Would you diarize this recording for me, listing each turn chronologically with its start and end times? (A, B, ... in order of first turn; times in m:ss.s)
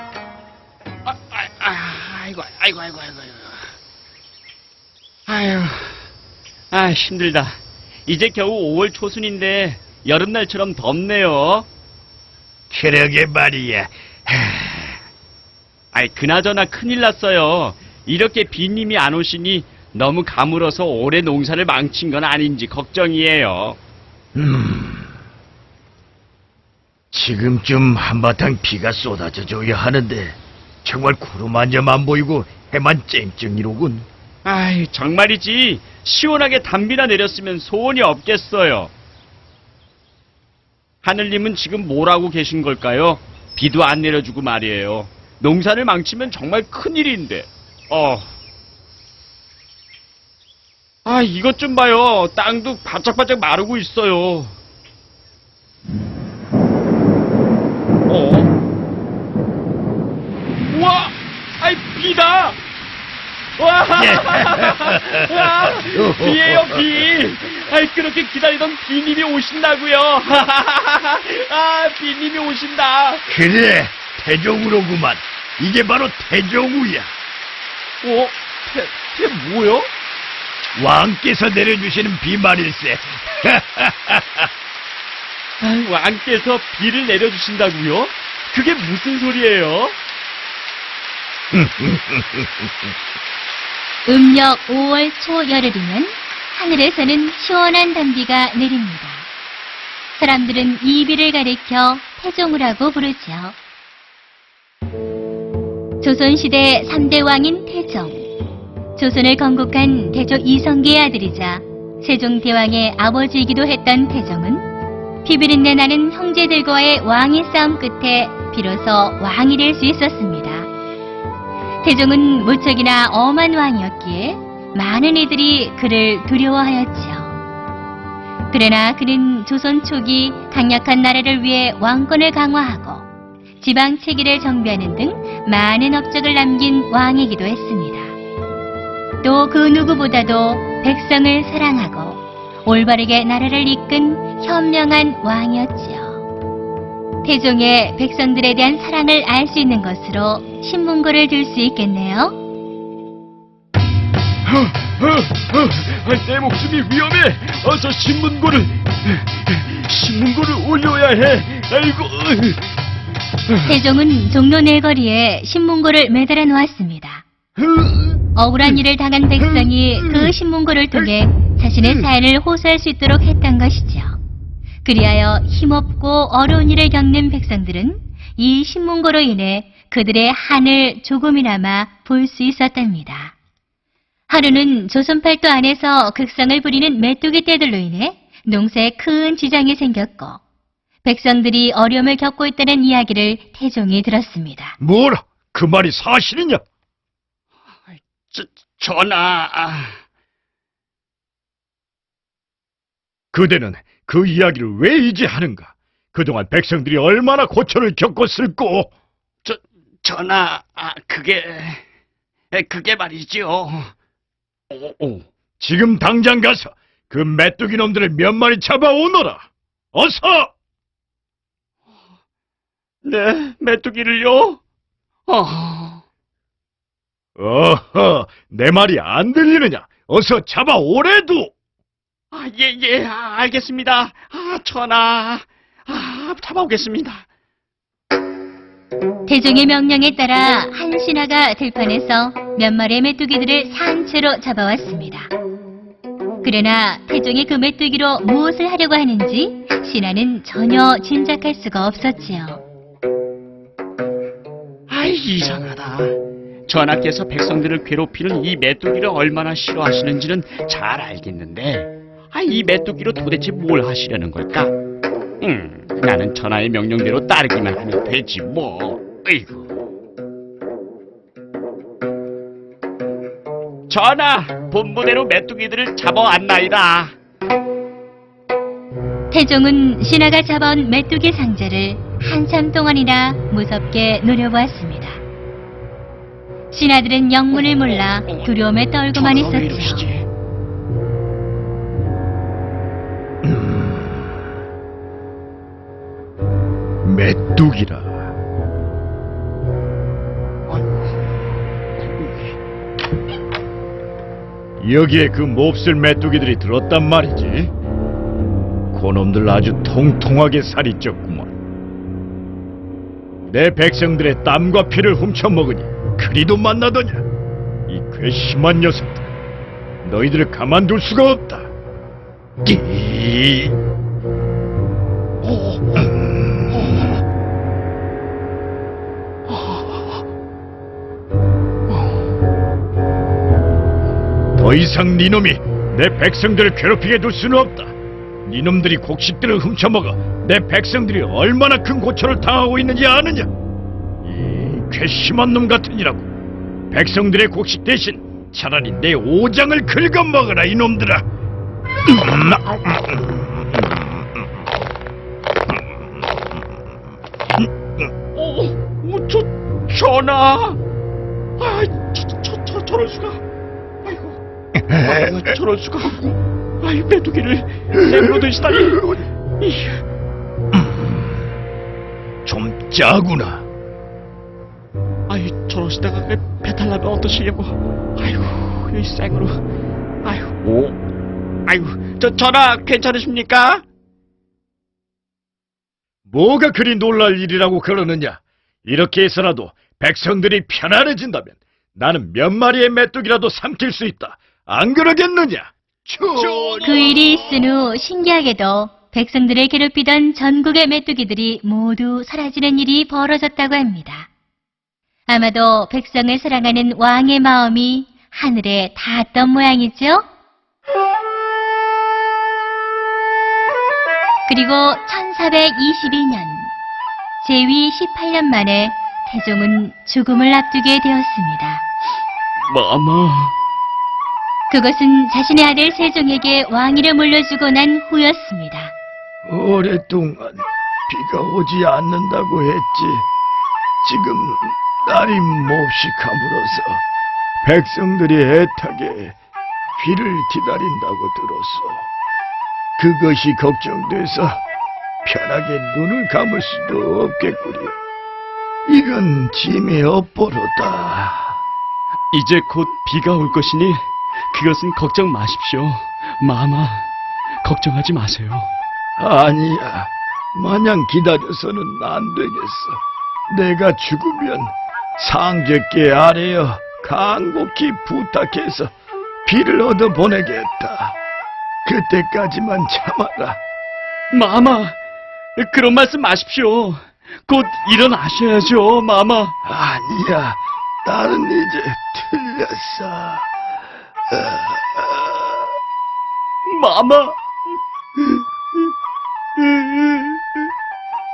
0:01.0-0:03.6 A
0:05.3-0:06.1 A
0:06.7-0:11.7 A
0:12.7-0:15.0 B
0:15.9-0:23.8 A
0:24.3-0:25.1 B
0:27.1-0:34.1 B
0:34.4-0:38.9 A
0:41.0-0:48.3 A
0:51.0-0:54.6 A
0:58.1-0:58.5 A
1:00.7-1:02.6 A
1:03.6-1:13.2 A
1:04.0-1:07.0 B
1:13.3-1:17.1 B
1:18.0-1:19.9 A
1:20.7-1:24.5 B
1:25.6-1:30.0 A
1:31.5-1:32.7 B
1:34.0-1:39.3 C
1:40.2-1:43.6 C
1:46.0-1:48.3 C
1:49.0-1:54.7 C
1:55.2-2:00.7 C
2:01.8-2:07.4 C
2:08.5-2:13.1 C
2:13.6-2:18.1 C
2:19.2-2:26.2 C
2:27.2-2:32.4 C
2:34.4-2:42.7 A
2:43.5-2:43.7 A
2:43.6-2:47.2 C
2:47.6-2:48.8 A
2:48.3-2:54.2 C
2:54.8-3:03.3 C
3:04.3-3:10.4 C
3:11.0-3:14.8 C
3:14.8-3:16.6 B
3:17.9-3:20.0 A
3:23.3-3:28.9 B
3:29.4-3:31.8 A
3:32.5-3:33.9 A
3:34.7-3:35.2 A
3:35.6-3:40.5 B
3:43.0-3:44.6 A
3:45.3-3:46.0 A
3:47.4-3:51.5 B
3:52.3-3:57.2 A
3:59.3-4:05.3 C
4:06.4-4:12.6 C
4:14.9-4:16.2 A
4:16.7-4:24.7 A
4:25.4-4:29.8 A
4:33.9-4:37.1 A
4:39.3-4:45.2 C
4:46.7-4:50.1 C
4:47.5-4:50.3 A
4:53.4-4:54.4 B
4:57.0-4:58.3 B
5:00.7-5:01.0 A
5:02.0-5:02.6 A
5:04.8-5:07.7 B
5:08.9-5:11.5 B
5:13.5-5:17.2 B
5:17.9-5:19.3 B
5:20.0-5:21.7 B
5:22.6-5:23.8 B
5:25.4-5:26.1 A
5:26.0-5:27.1 B
5:26.7-5:27.1 A
5:29.5-5:30.1 A
5:34.6-5:43.5 B
5:44.2-5:46.3 B
5:46.9-5:51.2 B
5:52.0-5:54.4 B
5:57.6-5:58.1 B
5:58.3-6:00.8 A
6:01.6-6:03.4 A
6:04.0-6:04.4 A
6:04.8-6:05.5 B
6:05.0-6:10.0 A
6:07.9-6:09.2 B
6:10.7-6:11.4 B
6:12.4-6:13.6 B
6:15.3-6:19.6 A
6:20.2-6:21.0 A
6:21.6-6:23.8 A
6:26.3-6:37.0 B
6:36.3-6:37.6 A
6:36.8-6:44.3 C
6:45.3-6:50.2 C
6:54.5-6:56.7 C
6:57.4-7:01.8 C
7:02.6-7:03.5 A
7:04.7-7:08.9 C
7:09.4-7:13.3 B
7:14.0-7:17.0 B
7:17.6-7:19.4 B
7:20.0-7:22.1 B
7:23.0-7:24.6 B
7:25.2-7:28.0 B
7:28.8-7:31.6 B
7:32.3-7:37.1 A
7:37.6-7:38.7 A
7:39.2-7:48.9 B
7:49.4-7:51.2 B
7:51.8-7:53.6 B
7:54.3-7:55.0 A
7:55.6-7:59.5 A
7:59.6-8:03.5 B
8:04.3-8:05.6 B
8:06.6-8:07.4 A
8:09.6-8:10.4 A